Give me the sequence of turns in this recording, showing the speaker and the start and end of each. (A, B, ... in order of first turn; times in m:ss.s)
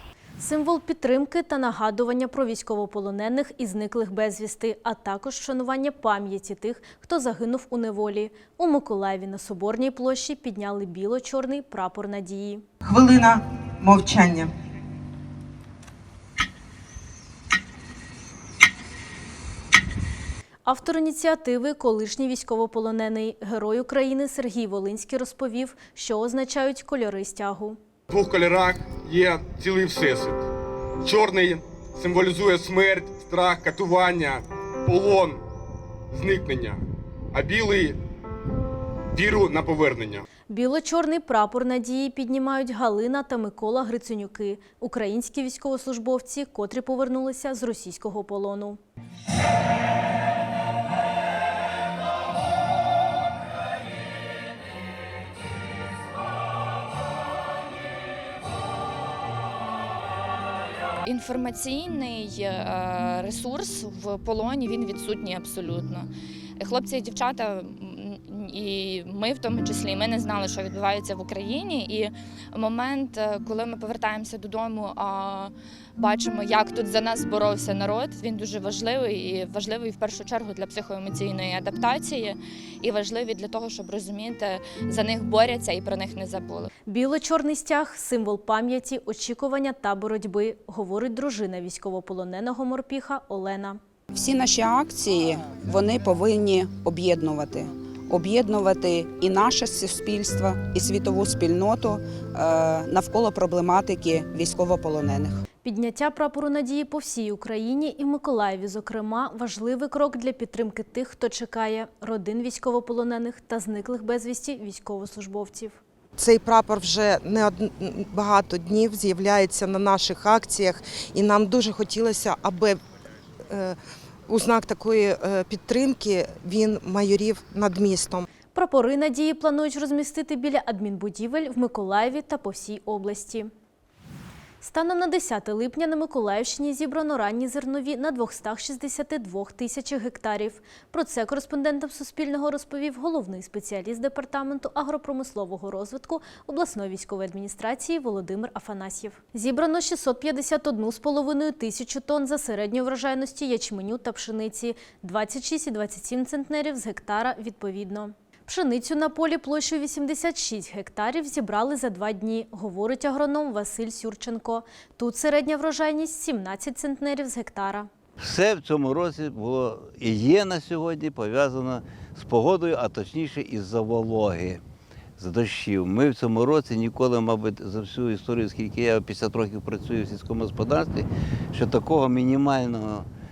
0:00.4-0:12.6 A
0:12.8-0:14.5 B
0:20.6-0:27.8 A
0:28.1-0:30.4 C
0:31.0-0:35.4 C
0:36.1-0:36.8 C
0:37.3-0:38.0 C
0:39.1-0:40.2 C
0:40.5-0:48.8 A
1:01.0-1:26.7 D
1:26.9-1:33.8 A
1:34.2-1:37.6 E
1:38.2-1:45.3 E
1:45.6-1:55.8 A
1:56.2-2:02.8 B
2:04.3-2:08.1 B
2:08.5-2:13.5 A
2:14.6-2:47.9 A
2:48.2-2:54.6 F
2:55.2-3:03.0 F